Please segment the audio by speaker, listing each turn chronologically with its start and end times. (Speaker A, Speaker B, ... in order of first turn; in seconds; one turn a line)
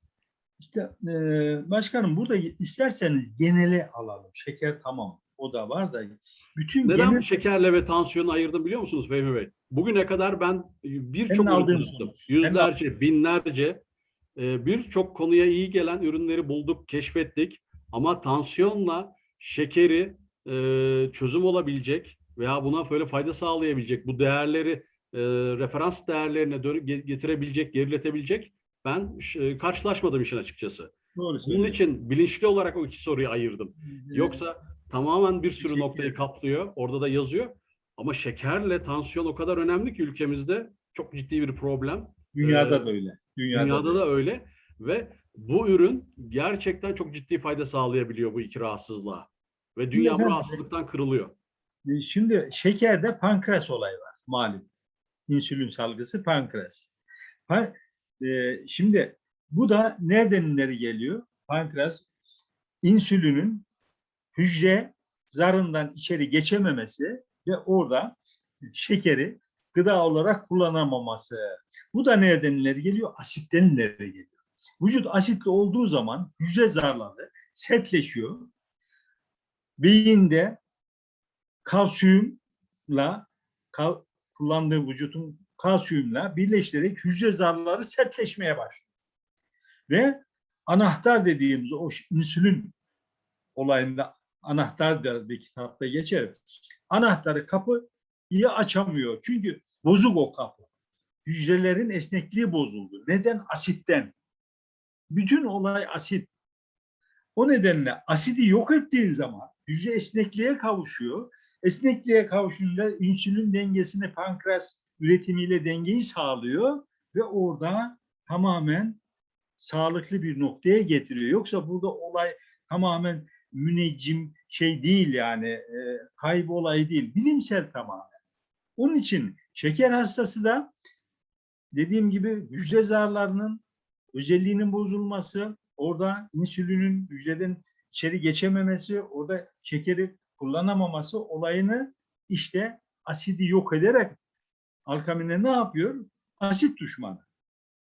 Speaker A: 0.6-7.4
Speaker B: 6.8-13.8
Speaker A: 11.3-12.7
Speaker B: 14.3-30.9
Speaker A: 31.1-31.8
Speaker B: 31.4-42.9
Speaker A: 33.8-34.4
Speaker A: 35.6-36.2
Speaker A: 42.3-44.0
Speaker B: 43.5-51.3
Speaker A: 49.9-50.6
Speaker A: 51.9-54.7
Speaker A: 55.3-56.9
Speaker A: 57.5-62.0
Speaker A: 62.8-63.6
Speaker A: 64.3-68.2
Speaker A: 68.7-71.4
Speaker A: 71.9-78.5
Speaker A: 79.8-80.6
Speaker A: 81.6-88.8
Speaker A: 89.9-92.7
Speaker A: 93.5-100.7
Speaker A: 101.2-104.1
Speaker A: 105.1-106.3
Speaker A: 107.3-119.0
Speaker A: 119.6-128.1
Speaker A: 128.8-130.7
Speaker A: 131.7-144.2
Speaker A: 144.9-147.2